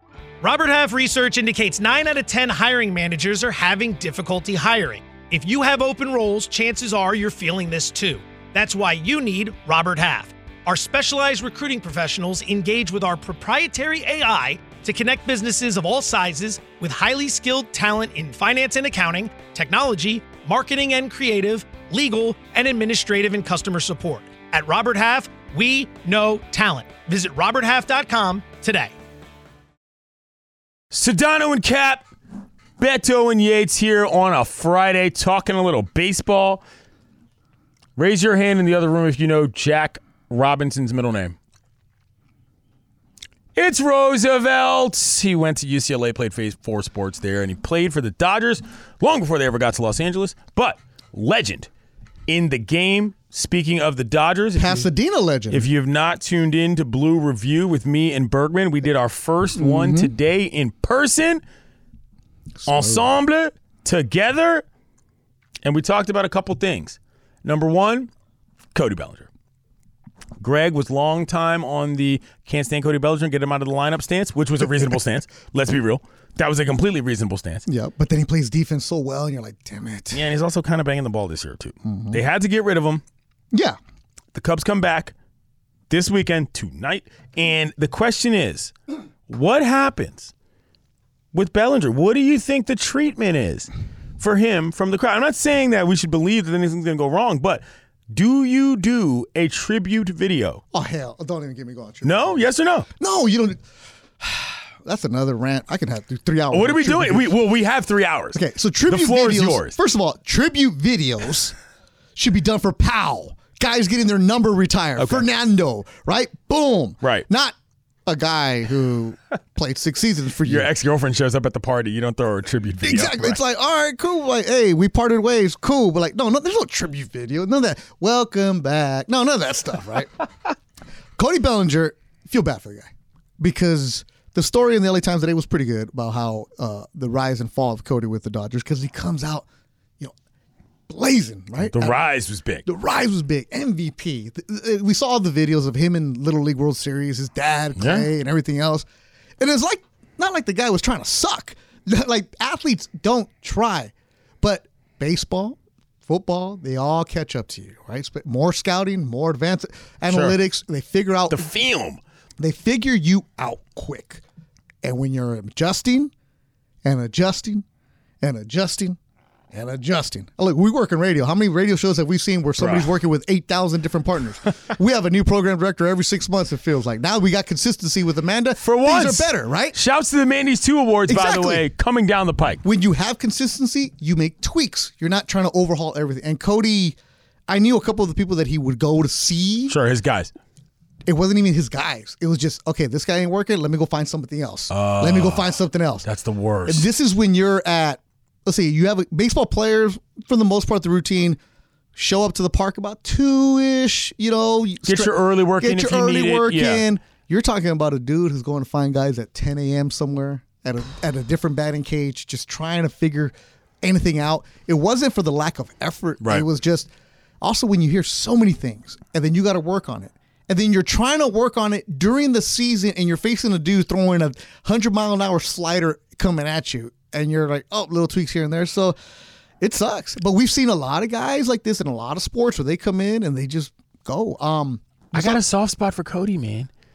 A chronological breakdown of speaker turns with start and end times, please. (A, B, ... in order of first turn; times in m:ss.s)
0:00.4-0:28.9 A
0:30.9-0:32.0 B
0:32.8-0:36.6 B
0:38.0-0:41.4 B
0:43.6-0:51.7 B
0:52.3-0:54.9 B
0:54.5-0:55.7 C
0:55.5-1:01.4 B
0:59.5-1:00.1 C
1:02.6-1:03.1 C
1:02.6-1:04.6 B
1:05.6-1:08.1 B
1:08.7-1:09.3 B
1:10.4-1:17.6 B
1:17.7-1:20.2 C
1:20.1-1:23.0 B
1:21.8-1:22.2 C
1:23.5-1:23.8 C
1:24.3-1:25.1 B
1:25.9-1:28.7 B
1:29.3-1:30.3 B
1:31.3-1:40.6 B
1:40.7-1:42.4 C
1:42.0-1:42.9 B
1:43.0-1:43.6 C
1:44.2-1:47.3 C
1:46.5-1:49.8 B
1:48.3-1:51.5 C
1:52.2-1:57.5 C
1:55.0-1:55.2 B
1:58.0-2:00.7 C
2:00.4-2:03.4 B
2:02.8-2:10.1 C
2:11.2-2:19.4 C
2:20.9-2:22.0 C
2:21.6-2:22.6 B
2:22.6-2:28.8 C
2:27.8-2:28.1 B
2:29.4-2:41.5 C
2:40.1-2:40.4 B
2:41.3-2:42.0 B
2:42.4-2:44.2 C
2:44.8-2:46.1 C
2:46.8-2:47.6 C
2:48.2-2:49.0 C
2:49.5-2:59.8 C
2:52.6-2:52.9 B
2:58.6-3:02.6 B
3:01.1-3:01.6 C
3:02.6-3:07.0 C
3:07.5-3:09.8 C
3:09.7-3:10.3 B
3:11.0-3:16.1 C
3:14.7-3:16.9 B
3:16.6-3:21.4 C
3:22.0-3:36.9 C
3:24.8-3:26.9 B
3:36.2-3:36.4 B
3:37.4-3:49.0 C
3:49.6-3:55.4 C
3:55.1-3:56.7 B